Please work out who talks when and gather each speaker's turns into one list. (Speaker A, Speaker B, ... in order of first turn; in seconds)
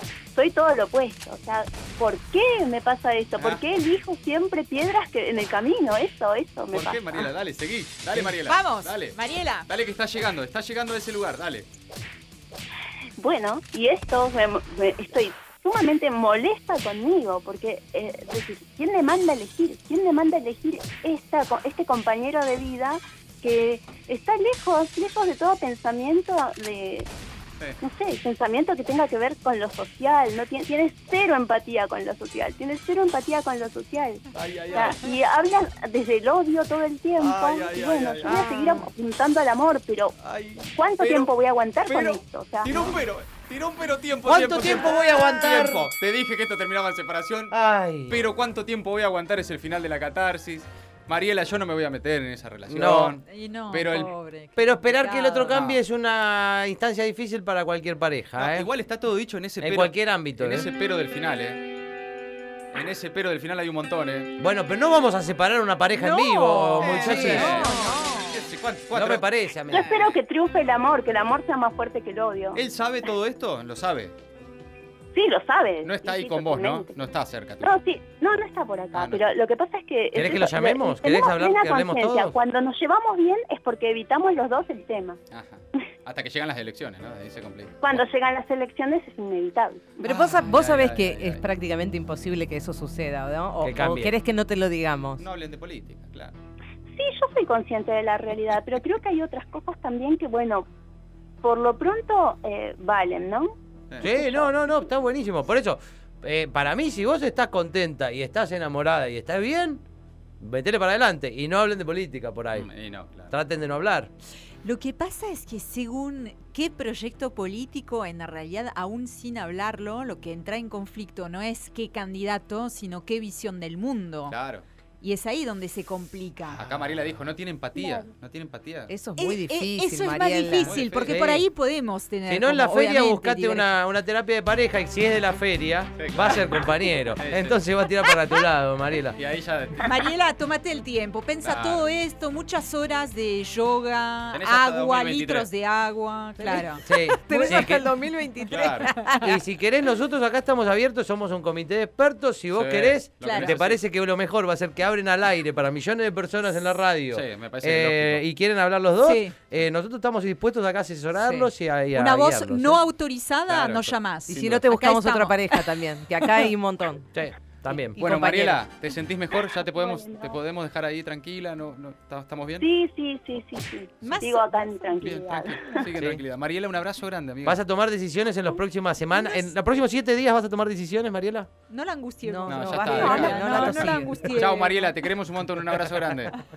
Speaker A: 0.3-7.3, 13.2-27.1, 27.8-40.1, 40.7-42.7, 69.7-72.6, 75.1-77.0, 77.6-85.2, 87.8-89.8, 97.0-100.7, 101.4-103.5, 104.1-104.5, 169.7-170.4, 172.6-175.8
Speaker B: 6.7-11.7, 34.3-35.1, 37.2-38.4, 40.2-41.3, 41.8-54.1, 55.5-55.8, 58.4-61.6, 62.7-64.3, 66.8-70.2, 72.5-74.1, 75.8-77.8, 78.9-79.3, 85.3-88.0, 90.0-91.4, 95.2-96.3, 103.9-104.2, 112.5-113.3, 124.3-124.6, 126.5-128.9, 130.6-131.4, 136.0-136.6, 137.2-137.6, 139.2-140.0, 141.4-141.9, 144.3-145.5, 148.5-148.9, 152.5-153.8, 157.1-158.2, 163.5-164.6, 168.0-172.7, 175.0-177.6, 182.4-186.3
Speaker C: 8.3-9.7, 53.2-55.5, 66.0-68.4, 114.6-124.4, 125.0-126.7, 129.2-133.7, 139.8-147.8, 148.9-149.2, 153.2-153.6, 159.0-159.3, 161.9-165.7, 174.0-174.9, 181.7-184.9
Speaker D: 38.2-38.8, 42.7-43.0, 44.2-45.9, 47.5-48.3, 52.7-53.2, 54.5-58.7, 59.6-60.7, 64.4-67.7, 68.9-69.9, 80.1-82.3, 93.6-94.1, 104.0-109.8, 110.4-112.7, 113.3-114.1, 132.3-139.2, 146.8-147.9, 149.1-162.8, 167.1-168.0, 177.4-181.5
Speaker E: 66.1-68.1, 90.0-95.2, 128.9-130.8, 146.4-149.2, 161.2-161.5, 164.3-167.1, 167.9-168.6, 182.2-184.5